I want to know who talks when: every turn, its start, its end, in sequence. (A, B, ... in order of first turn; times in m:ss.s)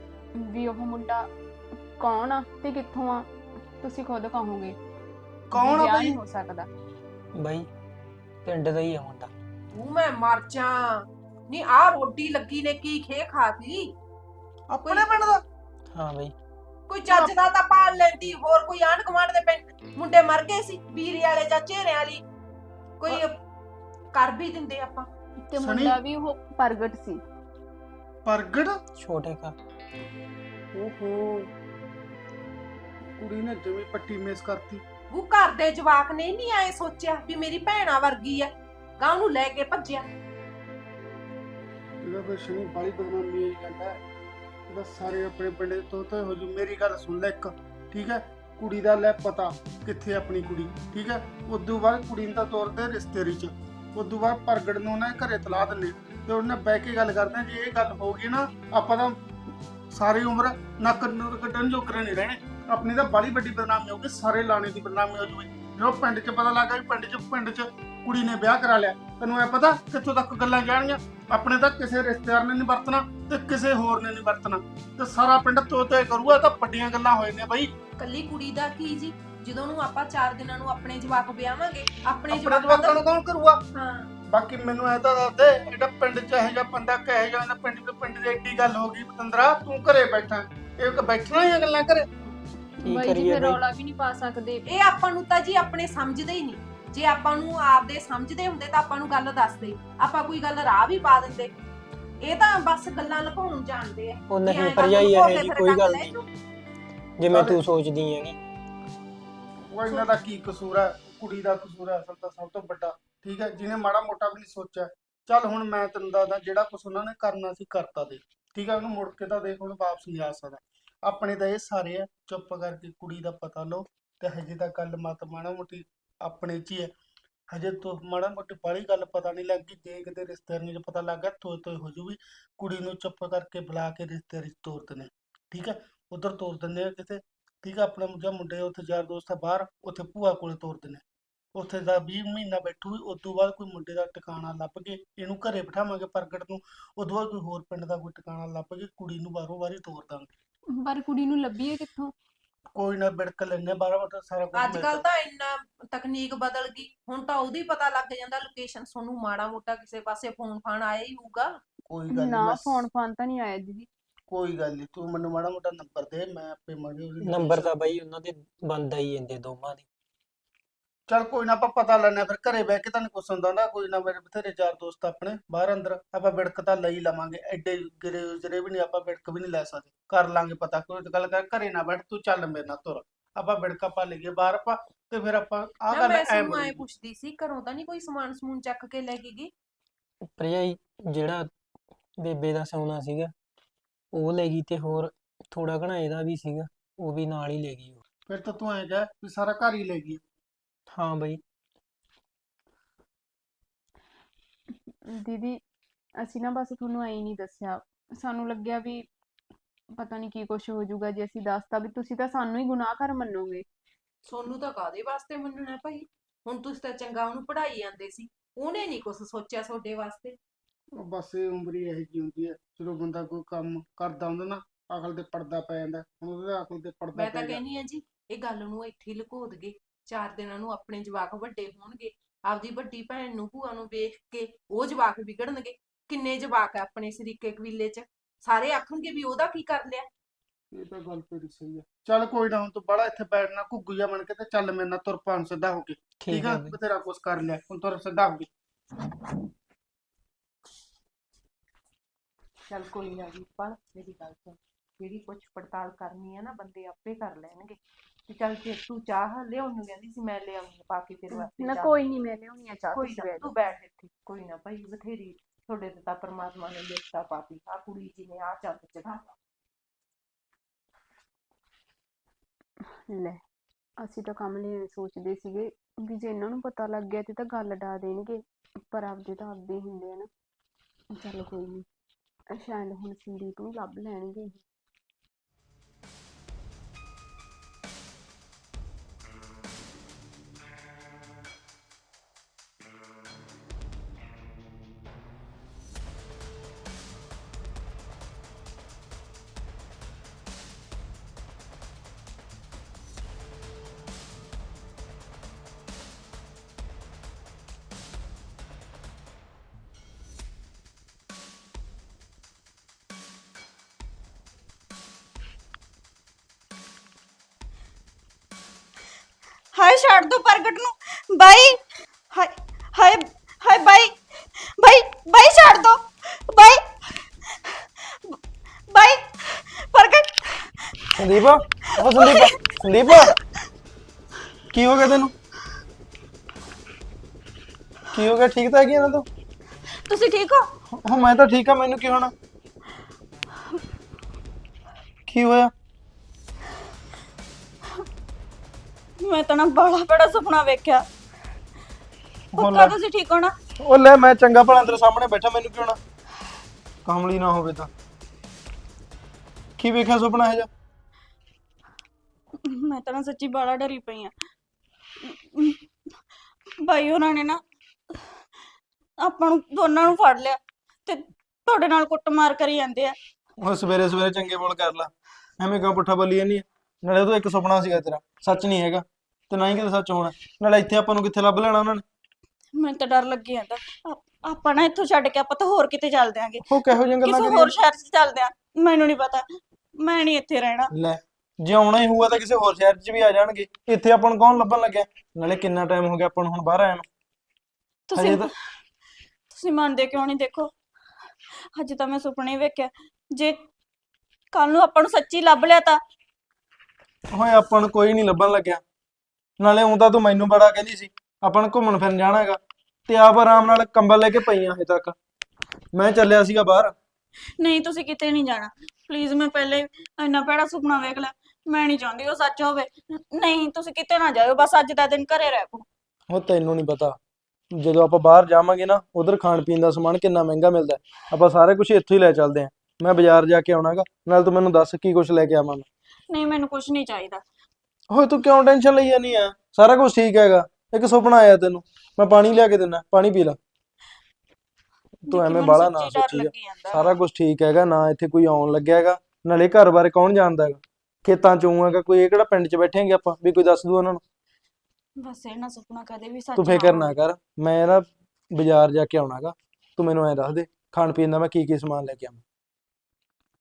0:00.4-0:01.3 A
0:02.0-0:03.3 A
0:03.8-0:04.8 A
0:05.5-0:06.2 B
0:05.5-0:06.7 A
0:07.4-0:07.7 C
0:08.4-0:09.3 C
0:09.7-0:13.9 D
0:14.7-0:15.4 B
0:14.8-0:15.1 D
0:15.9-0:16.3 C
0:16.9-0:22.2 D
0:17.1-0:17.4 B
0:23.0-0:23.4 D
0:24.1-0:25.1 D
0:25.5-0:27.2 A
0:25.6-0:26.0 B
0:28.2-0:28.8 B
0:29.0-0:29.5 C
0:30.7-0:31.5 B
0:33.1-0:34.8 B
0:35.1-0:40.1 D
0:42.0-0:44.0 B
0:44.7-0:59.2 B
0:59.9-1:17.7 B
1:18.0-1:23.0 D
1:22.3-1:23.6 B
1:23.7-1:24.1 D
1:24.3-1:32.1 B
1:32.8-1:34.6 A
1:32.8-1:33.6 C
1:34.6-1:41.5 D
1:42.2-1:46.2 D
1:44.3-1:46.1 C
1:47.2-1:48.4 C
1:47.3-1:47.6 B
1:49.7-2:06.9 B
2:07.5-2:21.0 B
2:21.5-2:30.3 B
2:30.7-2:32.1 A
2:32.7-2:35.0 B
2:34.5-2:41.6 D
2:41.9-2:42.8 B
2:42.1-2:43.9 A
2:44.3-2:47.8 B
2:47.2-2:49.8 C
2:51.1-3:06.8 B
3:05.9-3:09.5 D
3:10.3-3:11.5 C
3:12.2-3:13.3 C
3:14.1-3:18.0 C
3:18.3-3:20.2 B
3:20.9-3:21.4 C
3:25.1-3:25.6 A
3:26.2-3:29.1 A
3:29.9-3:33.6 A
3:34.2-3:40.4 D
3:41.0-3:47.6 B
3:47.1-4:00.1 D
4:00.7-4:08.5 B
4:06.2-4:06.8 C
4:12.7-4:17.8 D
4:18.3-4:21.9 D
4:21.3-4:23.5 A
4:22.9-4:29.2 D
4:33.1-4:33.4 A
4:34.0-4:40.3 A
4:41.2-4:41.8 A
4:42.5-4:44.6 A
5:19.7-5:28.4 E
5:28.9-5:33.4 E
5:31.2-5:33.3 F
5:34.7-5:35.3 F
5:38.1-5:39.2 F
5:40.1-5:40.6 E
5:40.9-5:42.3 F
5:45.3-5:45.7 F
5:49.2-5:51.0 E
5:52.6-5:52.9 F
5:52.6-5:53.5 E
5:53.8-5:56.0 F
5:57.0-5:57.9 F
5:59.8-6:00.7 F
6:02.6-6:04.3 E
6:05.2-6:05.8 E
6:06.8-6:08.3 E
6:09.2-6:13.2 E
6:13.6-6:22.0 F
6:22.7-6:30.9 E
6:26.7-6:27.7 F
6:30.9-6:37.0 F
6:38.1-6:38.5 E
6:38.1-6:38.5 F
6:39.5-6:40.7 E
6:41.8-6:43.6 E
6:44.5-6:46.0 E
6:47.3-6:48.8 F
6:49.6-6:55.1 F
6:55.9-6:56.9 F
6:57.6-7:05.8 E
7:06.3-7:07.2 F
7:07.7-7:15.9 F
7:16.3-7:17.4 E
7:18.1-7:23.6 F
7:25.3-7:34.2 F
7:25.3-7:27.2 E
7:35.2-7:37.1 E
7:36.6-7:42.4 F